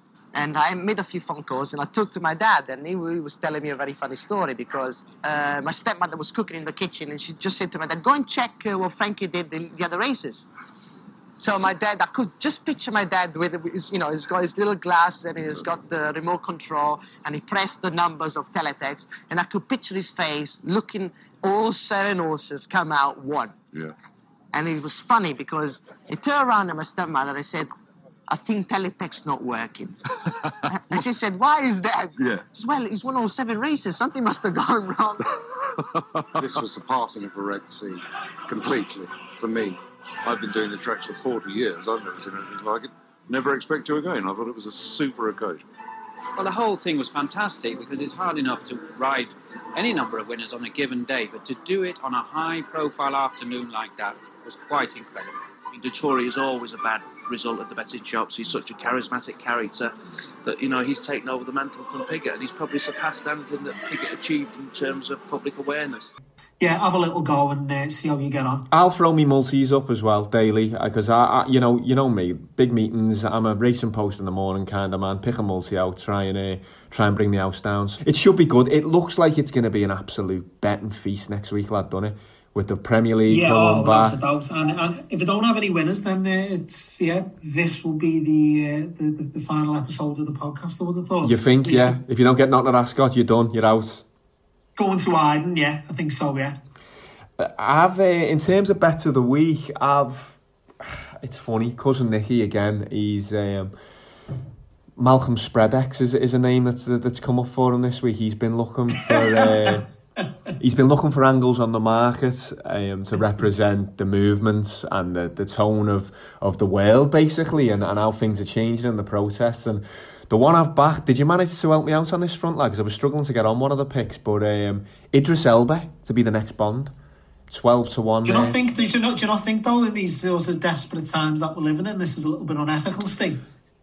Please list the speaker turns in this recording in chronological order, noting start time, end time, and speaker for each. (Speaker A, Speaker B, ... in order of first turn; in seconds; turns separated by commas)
Speaker A: 0.3-10.5, Speaker A: 11.4-23.6, Speaker A: 24.5-27.7, Speaker A: 28.3-30.0, Speaker A: 30.7-35.2, Speaker B: 36.4-45.6, Speaker C: 46.4-55.2, Speaker D: 53.9-66.1, Speaker E: 66.6-68.7, Speaker F: 68.7-84.2, Speaker E: 83.3-92.0, Speaker F: 91.2-94.0, Speaker E: 94.8-96.6, Speaker F: 97.4-103.7, Speaker F: 105.0-109.8, Speaker E: 109.0-109.8, Speaker F: 110.6-126.9, Speaker F: 127.5-128.6, Speaker E: 128.2-133.4